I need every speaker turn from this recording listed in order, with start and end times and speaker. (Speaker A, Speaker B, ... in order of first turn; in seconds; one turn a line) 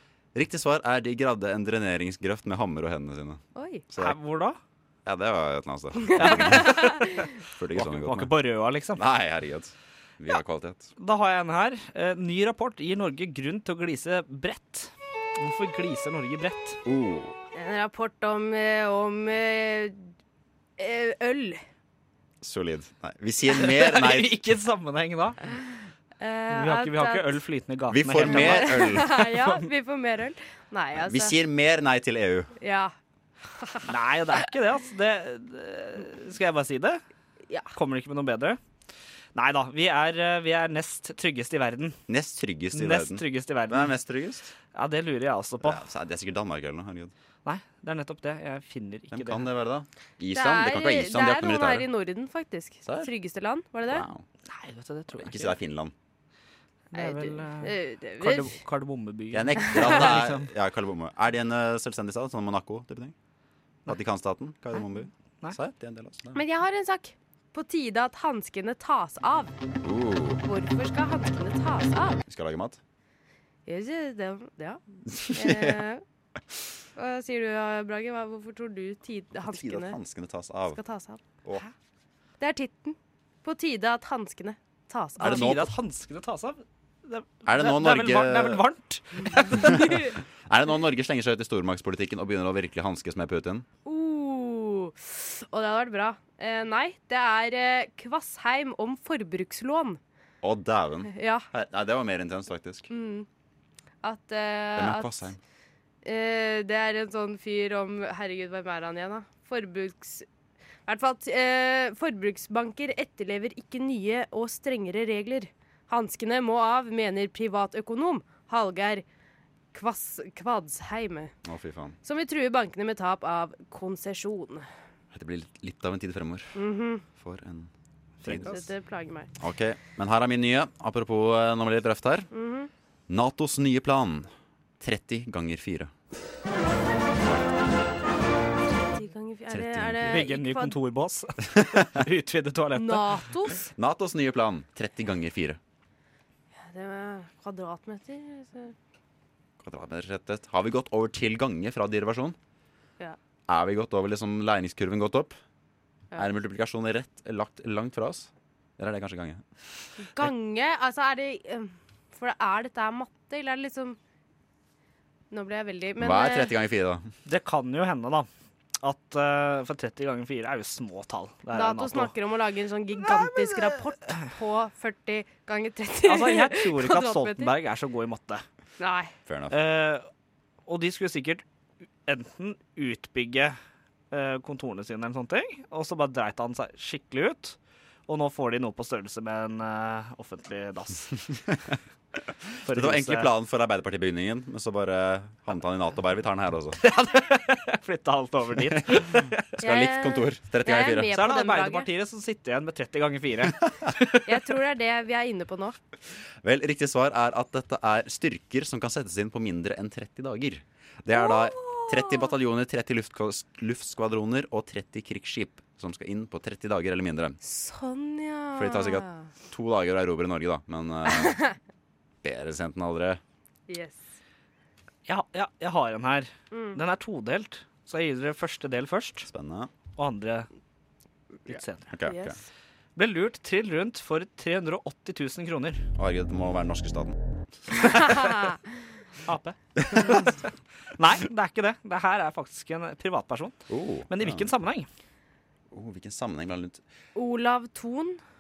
Speaker A: 0.3-4.2
Speaker B: 3.5-3.9
Speaker C: 4.0-4.6
Speaker A: 5.0-6.9
Speaker B: 6.1-7.2
Speaker C: 6.2-7.2
Speaker A: 7.5-8.3
Speaker C: 7.7-9.0
Speaker A: 8.9-10.9
Speaker C: 11.0-16.8
Speaker A: 16.9-17.4
Speaker B: 17.5-20.1
Speaker B: 20.8-21.6
Speaker A: 22.4-24.4
Speaker C: 23.5-25.4
Speaker B: 26.2-27.4
Speaker C: 26.5-29.6
Speaker A: 27.9-29.3
Speaker B: 28.2-31.4
Speaker A: 31.0-32.5
Speaker B: 32.6-32.9
Speaker B: 33.6-33.9
Speaker C: 33.9-37.0
Speaker C: 37.7-38.6
Speaker C: 39.4-42.0
Speaker A: 42.1-44.5
Speaker C: 42.7-44.0
Speaker C: 44.7-45.8
Speaker A: 45.6-47.1
Speaker C: 47.4-49.5
Speaker A: 49.1-51.9
Speaker B: 50.3-54.0
Speaker A: 52.9-53.1
Speaker A: 53.9-54.2
Speaker C: 54.5-55.5
Speaker A: 55.2-55.9
Speaker C: 56.9-60.5
Speaker B: 56.9-58.6
Speaker A: 59.3-63.1
Speaker A: 63.9-66.4
Speaker B: 66.3-69.5
Speaker A: 69.8-70.4
Speaker B: 70.4-72.2
Speaker A: 72.2-72.8
Speaker B: 73.7-74.8
Speaker A: 75.1-75.8
Speaker B: 75.3-76.0
Speaker B: 77.0-80.0
Speaker A: 79.4-80.8
Speaker B: 80.7-81.2
Speaker B: 82.4-85.5
Speaker A: 85.2-85.7
Speaker C: 85.2-90.1
Speaker A: 87.5-88.6
Speaker A: 89.6-93.7
Speaker B: 93.8-100.0
Speaker A: 100.4-102.9
Speaker B: 101.1-101.5
Speaker B: 102.9-103.3
Speaker B: 104.0-105.3
Speaker A: 104.8-105.4
Speaker B: 106.0-110.3
Speaker B: 110.9-119.0
Speaker B: 119.7-121.3
Speaker A: 121.4-122.0
Speaker B: 122.0-124.7
Speaker A: 125.1-126.6
Speaker B: 126.5-127.0
Speaker A: 127.2-127.7
Speaker C: 128.2-128.6
Speaker A: 128.2-128.6
Speaker B: 128.4-129.3
Speaker A: 129.4-132.3
Speaker B: 132.3-132.7
Speaker A: 133.1-135.9
Speaker A: 137.1-137.5
Speaker B: 138.7-140.8
Speaker A: 139.5-140.3
Speaker C: 140.1-143.3
Speaker A: 141.6-141.8
Speaker B: 142.8-143.7
Speaker A: 143.8-145.6
Speaker B: 146.6-148.7
Speaker A: 149.6-152.4
Speaker A: 153.5-155.3
Speaker A: 156.2-159.4
Speaker B: 160.0-164.0
Speaker B: 165.3-166.5
Speaker A: 166.0-167.1
Speaker C: 167.2-168.3
Speaker C: 168.8-172.1
Speaker B: 171.5-177.5
Speaker C: 173.1-173.7
Speaker C: 176.0-178.4
Speaker B: 178.8-179.1
Speaker A: 179.3-179.6
Speaker C: 179.5-180.1
Speaker C: 180.7-181.4
Speaker C: 182.1-183.6
Speaker C: 184.1-191.3
Speaker C: 192.6-193.3
Speaker A: 192.7-196.8
Speaker C: 196.8-199.5
Speaker A: 199.6-201.2
Speaker B: 199.6-201.9
Speaker C: 201.1-204.3
Speaker B: 204.2-205.8
Speaker A: 206.4-217.4
Speaker B: 211.2-212.3
Speaker B: 217.4-219.3
Speaker A: 218.6-221.4
Speaker B: 221.1-221.5
Speaker A: 222.2-223.2
Speaker B: 223.7-224.0
Speaker C: 225.1-229.3
Speaker B: 226.5-226.8
Speaker A: 229.2-229.7
Speaker C: 230.0-230.5
Speaker C: 231.5-231.9
Speaker A: 231.9-232.4
Speaker B: 232.0-232.4
Speaker C: 233.0-235.9
Speaker A: 236.0-237.2
Speaker C: 237.8-238.5
Speaker C: 239.2-240.4
Speaker A: 239.8-240.2
Speaker C: 241.0-244.9
Speaker A: 243.7-244.5
Speaker A: 245.7-246.8
Speaker B: 247.2-248.2